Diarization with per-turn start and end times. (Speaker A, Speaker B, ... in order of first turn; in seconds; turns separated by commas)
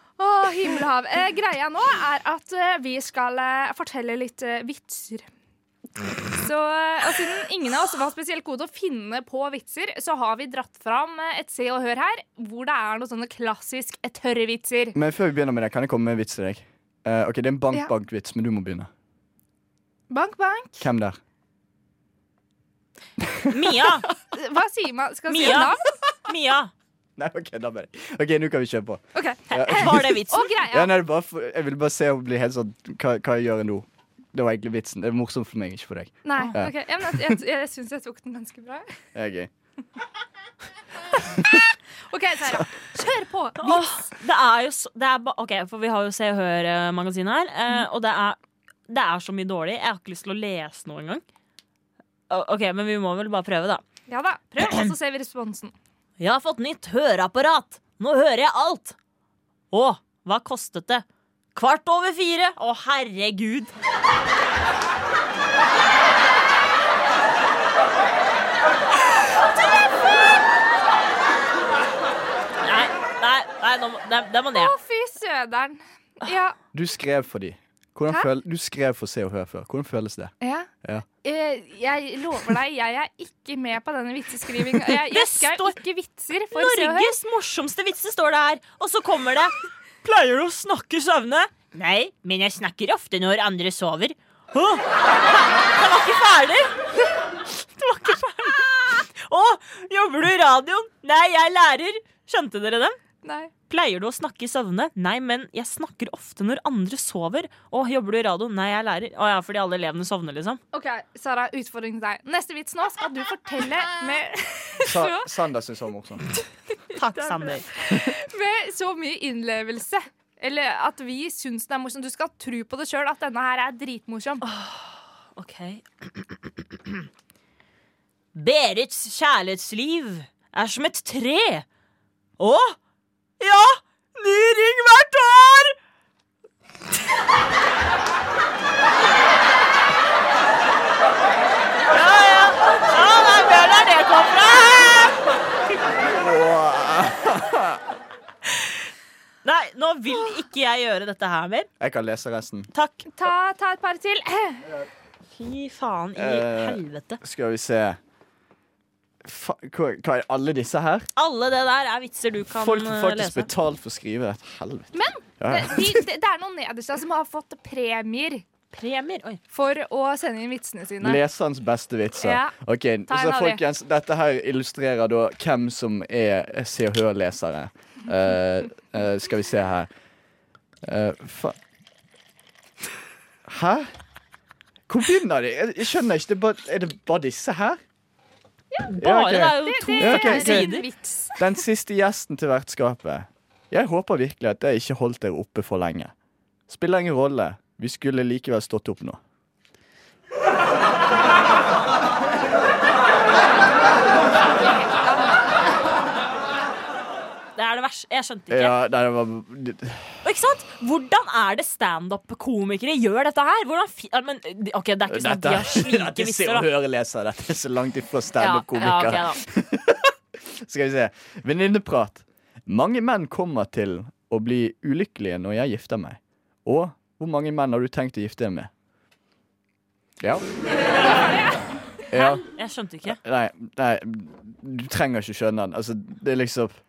Speaker A: 0.2-5.3, Speaker A: 6.3-14.9, Speaker B: 14.9-18.9, Speaker A: 20.1-20.9, Speaker B: 20.8-21.2, Speaker B: 23.2-24.0, Speaker C: 23.5-24.1, Speaker A: 24.3-25.9, Speaker C: 25.3-26.7, Speaker B: 27.2-37.4, Speaker A: 29.1-30.9, Speaker C: 29.5-30.5, Speaker A: 36.2-39.0, Speaker B: 39.1-39.5, Speaker B: 41.4-41.6, Speaker A: 42.1-44.0, Speaker C: 43.6-51.2, Speaker C: 52.3-53.8, Speaker A: 54.1-55.7, Speaker C: 54.6-54.9, Speaker C: 56.2-59.0, Speaker C: 59.7-63.7, Speaker C: 72.6-74.7, Speaker A: 74.5-76.6, Speaker B: 76.7-81.0, Speaker A: 80.4-80.7, Speaker A: 81.2-87.1, Speaker C: 84.8-85.8, Speaker C: 86.5-89.5, Speaker C: 90.0-96.8, Speaker C: 97.4-103.0, Speaker A: 103.2-103.5, Speaker C: 103.7-110.6, Speaker A: 110.7-115.3, Speaker B: 114.8-116.3, Speaker A: 116.9-124.4, Speaker C: 116.9-117.7, Speaker C: 124.4-127.0, Speaker C: 128.3-131.7, Speaker C: 132.4-132.8, Speaker C: 133.4-135.8, Speaker C: 141.9-145.3, Speaker B: 146.0-147.8, Speaker C: 148.4-148.8, Speaker C: 149.4-151.7, Speaker B: 151.8-152.7, Speaker C: 152.7-153.1, Speaker A: 153.1-154.7, Speaker C: 155.3-157.2, Speaker B: 156.2-158.0, Speaker B: 159.2-161.1, Speaker C: 161.2-163.5, Speaker B: 162.5-166.0, Speaker A: 164.9-168.4, Speaker C: 168.7-169.4, Speaker A: 169.5-171.2, Speaker B: 171.0-179.9, Speaker A: 172.2-172.6, Speaker A: 173.1-173.6, Speaker B: 180.8-181.6, Speaker B: 183.5-183.9, Speaker B: 184.9-187.8, Speaker A: 188.7-189.0, Speaker C: 188.9-190.8, Speaker B: 189.0-190.7, Speaker A: 189.5-191.6, Speaker B: 191.4-196.1, Speaker B: 196.7-199.2, Speaker A: 204.6-205.3, Speaker C: 207.6-208.7, Speaker B: 208.5-210.2, Speaker C: 210.2-216.7, Speaker B: 215.1-228.7, Speaker C: 218.4-219.4, Speaker B: 230.2-230.4, Speaker A: 231.0-231.6, Speaker B: 232.1-232.4, Speaker C: 232.1-233.2, Speaker B: 233.1-236.8